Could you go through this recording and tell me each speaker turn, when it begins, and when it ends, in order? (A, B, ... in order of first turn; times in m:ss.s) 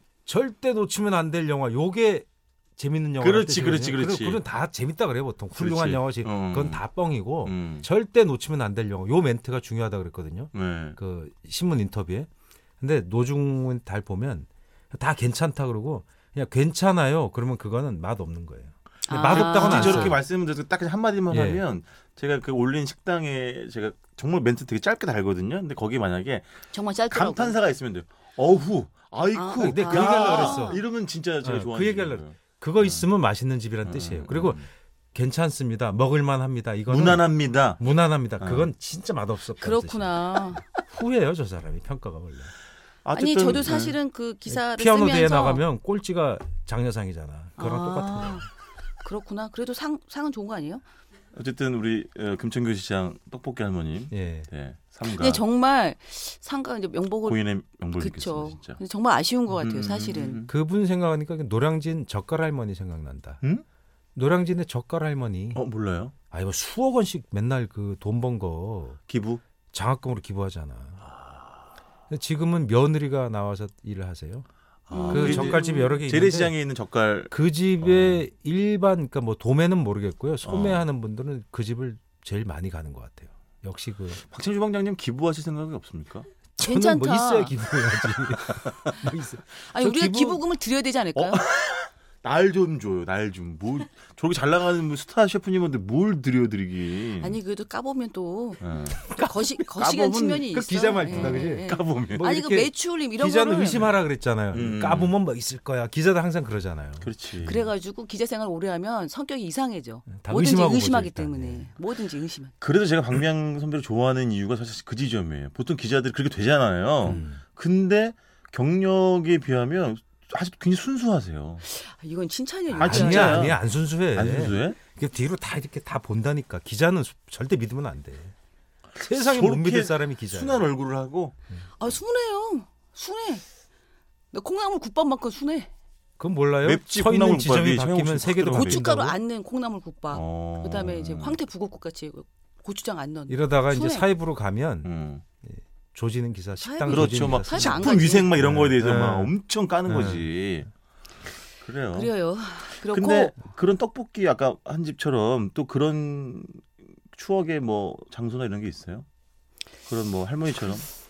0:00.2-0:12.3 A
0:03.2-0:04.4 B
0:05.5-0:06.8 B
0:07.4-0:07.9 B
0:10.5-0:11.0 B
0:12.8-0:20.2 A
0:19.1-0:20.2 C
0:19.1-0:26.5 B
0:21.3-0:21.6 A
0:26.7-0:27.6 C
0:27.1-0:33.0 B
0:29.3-0:30.8 C
0:29.6-0:30.8 A
0:31.4-0:34.6 A
0:33.8-0:34.7 B
0:35.1-0:37.2 A
0:36.9-0:37.8 B
0:37.8-0:42.5 A
0:38.4-0:38.7 B
0:39.6-0:40.7 C
0:43.0-0:44.0 B
0:43.1-0:45.6 C
0:44.5-0:48.4 A
0:47.6-0:48.4 C
0:49.0-0:50.8 C
0:51.3-0:55.4 B
0:54.1-0:54.5 A
0:55.0-0:57.4 C
0:57.2-0:58.8 B
0:58.0-1:00.4 C
0:59.5-1:00.5 B
1:00.5-1:03.4 A
1:04.1-1:05.6 A
1:05.5-1:06.1 B
1:06.3-1:09.0 A
1:09.1-1:09.4 B
1:09.7-1:11.0 A
1:11.0-1:11.5 B
1:12.1-1:14.5 A
1:14.9-1:18.2 B
1:14.9-1:16.0 C
1:15.1-1:16.5 A
1:17.3-1:24.2 A
1:20.4-1:20.8 B
1:24.3-1:26.3 B
1:26.6-1:30.4 A
1:26.6-1:27.5 C
1:29.6-1:31.4 C
1:31.2-1:37.4 B
1:37.2-1:43.9 C
1:38.6-1:42.2 B
1:40.5-1:47.1 A
1:44.5-1:45.1 B
1:47.0-1:47.6 B
1:47.4-1:52.5 C
1:50.1-1:51.7 A
1:52.6-2:01.6 B
1:57.0-1:57.4 A
2:01.6-2:03.5 C
2:02.7-2:03.6 B
2:02.8-2:08.3 A
2:04.1-2:04.8 B
2:09.0-2:11.3 B
2:09.0-2:10.6 A
2:11.8-2:13.4 C
2:14.3-2:15.7 C
2:16.2-2:19.2 A
2:16.6-2:18.8 B
2:18.5-2:24.0 C
2:20.1-2:21.4 B
2:23.3-2:24.9 A
2:24.8-2:25.2 B
2:25.4-2:29.3 A
2:26.6-2:28.3 C
2:26.9-2:30.7 B
2:29.9-2:30.3 A
2:31.6-2:32.1 B
2:31.9-2:33.3 C
2:32.8-2:39.0 B
2:39.9-2:40.9 B